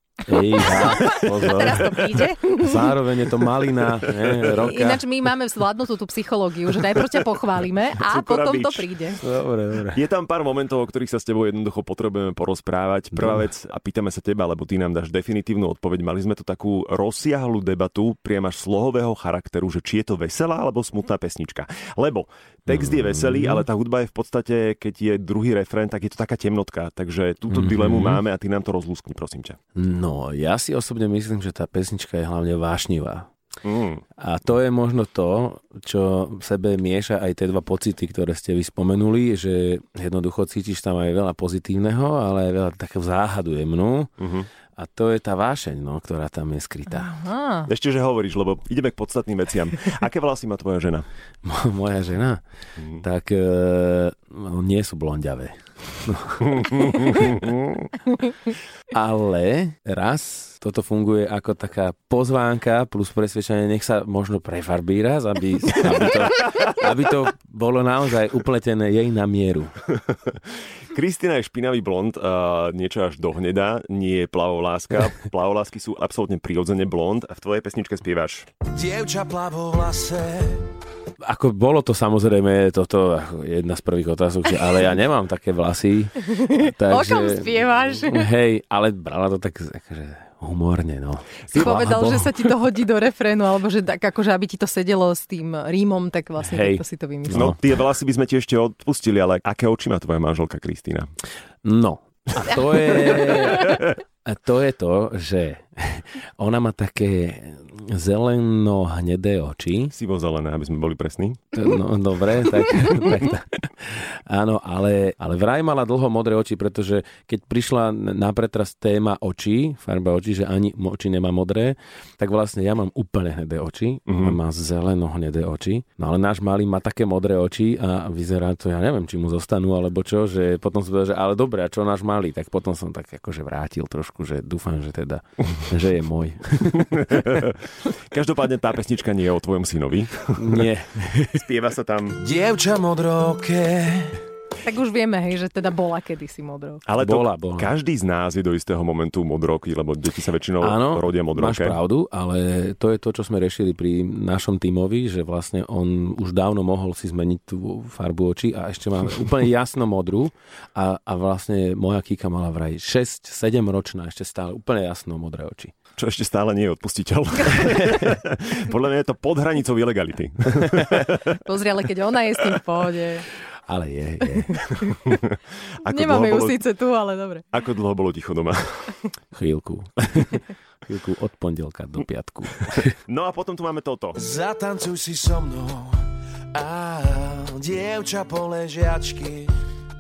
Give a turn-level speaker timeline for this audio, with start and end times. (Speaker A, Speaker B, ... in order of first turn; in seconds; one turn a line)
Speaker A: 0.3-5.1
Speaker B: 0.6-2.0
Speaker C: 0.6-3.0
Speaker B: 4.0-4.5
Speaker C: 4.5-9.2
Speaker B: 8.0-8.9
Speaker A: 9.2-10.0
Speaker B: 9.9-29.6
Speaker A: 13.1-13.4
Speaker A: 22.7-23.6
Speaker A: 27.5-28.2
Speaker A: 29.8-33.3
Speaker B: 33.6-34.0
Speaker A: 34.2-44.1
Speaker B: 44.2-44.5
Speaker A: 44.8-47.2
Speaker C: 46.9-47.7
Speaker B: 47.7-51.1
Speaker A: 51.4-52.4
Speaker B: 52.8-53.0
Speaker A: 53.0-56.8
Speaker B: 56.5-57.9
Speaker A: 58.9-69.7
Speaker B: 69.9-78.5
Speaker D: 78.7-80.7
Speaker A: 81.2-92.0
Speaker C: 86.2-88.3
Speaker C: 91.5-97.5
Speaker B: 91.5-92.2
Speaker A: 96.4-97.6
Speaker B: 97.3-101.1
Speaker A: 101.6-109.9
Speaker C: 103.3-103.8
Speaker B: 109.9-111.4
Speaker A: 111.5-137.1
Speaker B: 124.1-124.4
Speaker B: 136.7-140.7
Speaker A: 140.4-141.4
Speaker B: 141.3-142.2
Speaker D: 142.2-144.2
Speaker C: 144.6-146.8
Speaker B: 146.9-151.8
Speaker A: 147.0-147.7
Speaker A: 150.6-165.7
Speaker B: 166.0-171.4
Speaker A: 167.7-168.0
Speaker C: 171.4-173.3
Speaker A: 173.7-174.6
Speaker C: 174.4-175.2
Speaker B: 174.9-176.6
Speaker C: 175.8-177.5
Speaker B: 177.5-178.9
Speaker A: 179.3-182.9
Speaker B: 183.0-184.2
Speaker D: 184.2-189.5